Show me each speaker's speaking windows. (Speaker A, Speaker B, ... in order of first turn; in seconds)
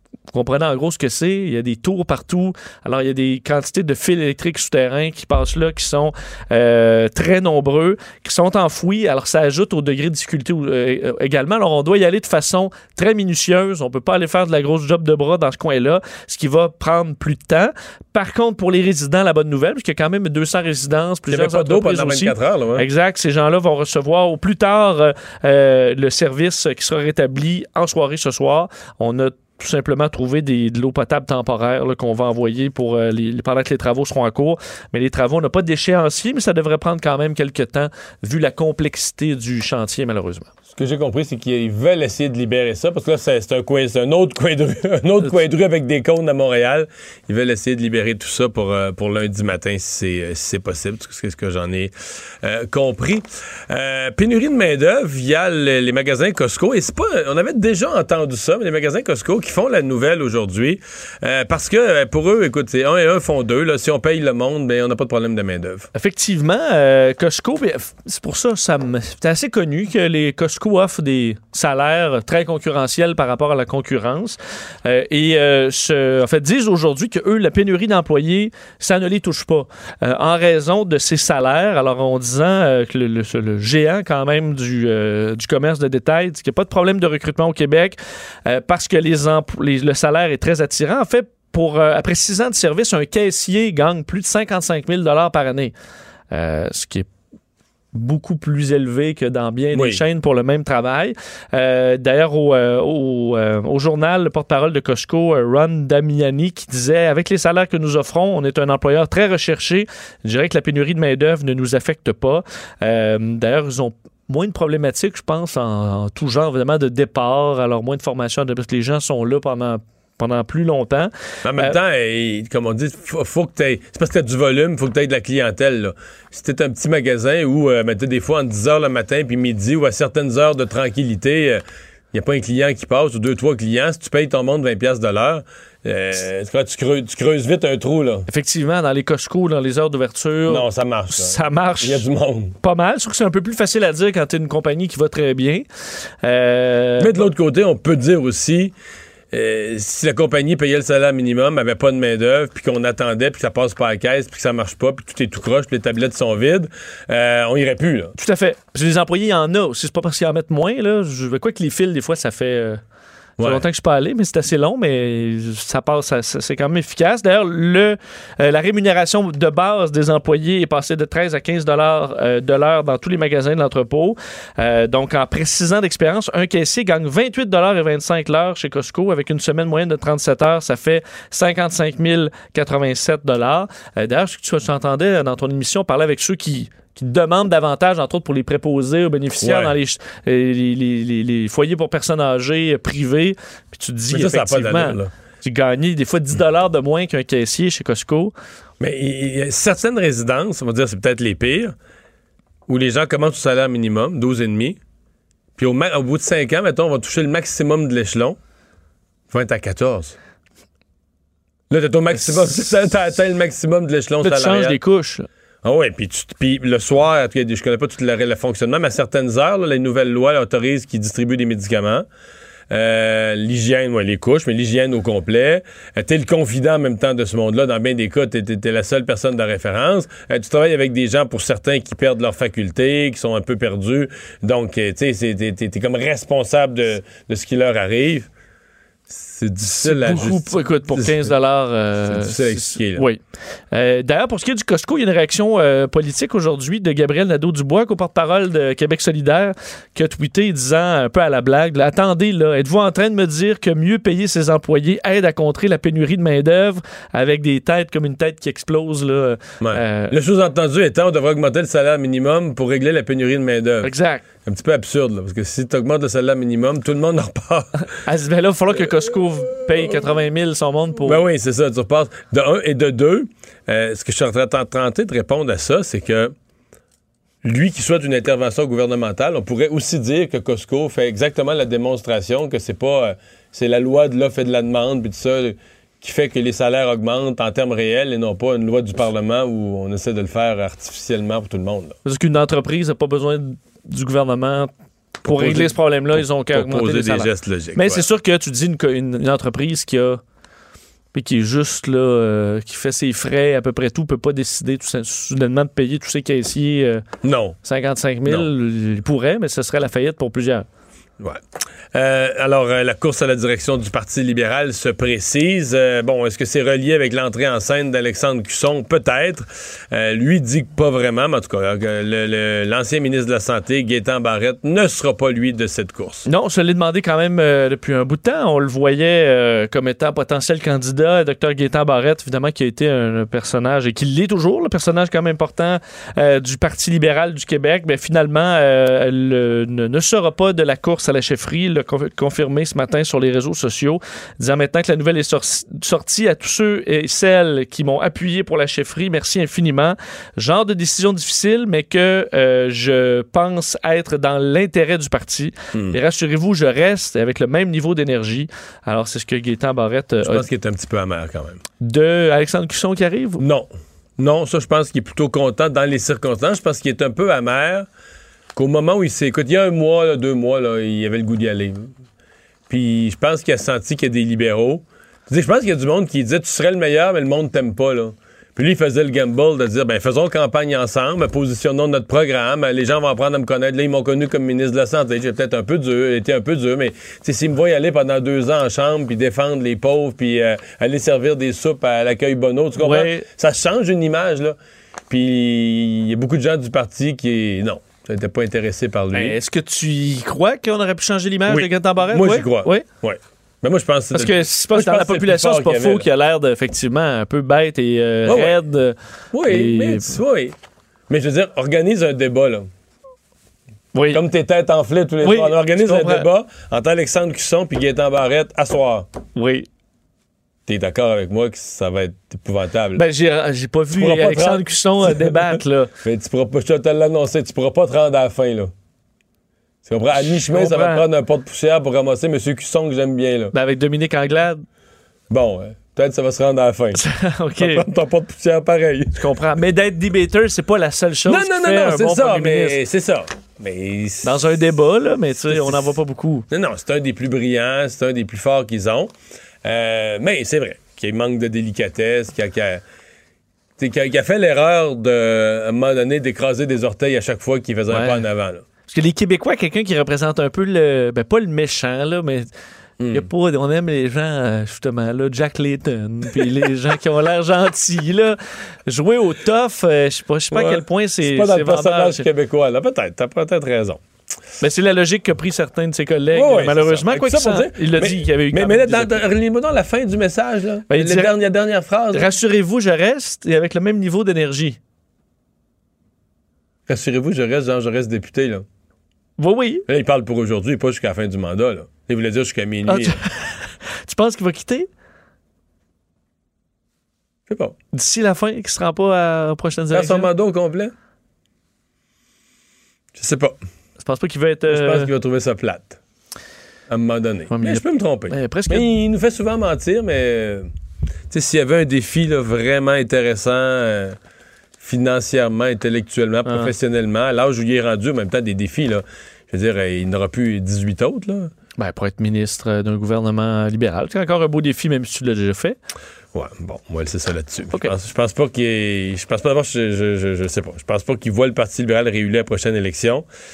Speaker A: 0.3-40.5, 65.9-95.7, 96.3-97.1, 97.9-121.8, 138.3-142.0, 142.6-145.7, 146.2-147.2, 158.2-162.8, 163.4-198.3, 214.2-215.3, 239.8-243.2, 243.7-260.1, 263.8-264.2, 268.0-271.2, 292.1-294.7, 295.2-300.2, 301.1-307.0, 307.6-310.7, 326.3-360.4, 361.8-363.4, 392.8-393.2, 399.1-402.9, 404.1-409.0, 409.5-410.2, 413.9-414.2, 415.2-416.3, 419.4-419.7, 423.0-425.9, 430.1-431.0, 433.5-434.6, 437.0-437.8, 439.1-442.8, 444.2-446.5, 457.9-458.2, 458.9-462.5, 463.1-472.2, 474.6-479.2, 480.9-481.3, 482.1-484.8, 489.4-489.9, 492.9-494.9, 497.9-500.3, 504.0-505.1, 507.5-508.9, 521.8-525.8
Speaker B: 21.3-22.9, 40.7-65.9, 99.7-100.0, 121.5-138.3, 140.5-142.6, 147.0-148.7, 149.3-158.1, 163.4-163.6, 189.4-189.7, 194.1-195.1, 198.8-201.8, 202.7-204.8, 205.6-208.4, 209.3-210.2, 211.7-214.8, 215.6-222.1, 222.7-238.3, 239.1-241.3, 242.1-243.1, 259.6-263.9, 264.4-267.7, 271.1-276.3, 277.4-292.0, 295.2-298.0, 307.2-307.6, 311.9-326.2, 360.2-361.6, 363.4-367.9, 368.6-371.9, 372.7-394.6, 395.1-399.4, 401.5-406.1, 408.3-408.6, 409.3-410.6, 411.1-412.7, 414.1-419.1, 420.7-423.0, 424.0-428.7, 429.9-433.5, 435.3-437.0, 437.6-439.2, 441.3-444.4, 445.5-445.9, 446.5-449.1, 449.6-452.8, 453.8-458.6, 463.0-463.3, 470.5-474.0, 476.3-482.3, 486.9-488.6, 489.9-493.2, 497.5-497.8, 499.9-500.9, 503.2-503.6, 504.7-506.0, 506.9-510.7, 511.3-514.2, 514.8-521.5, 526.3-533.2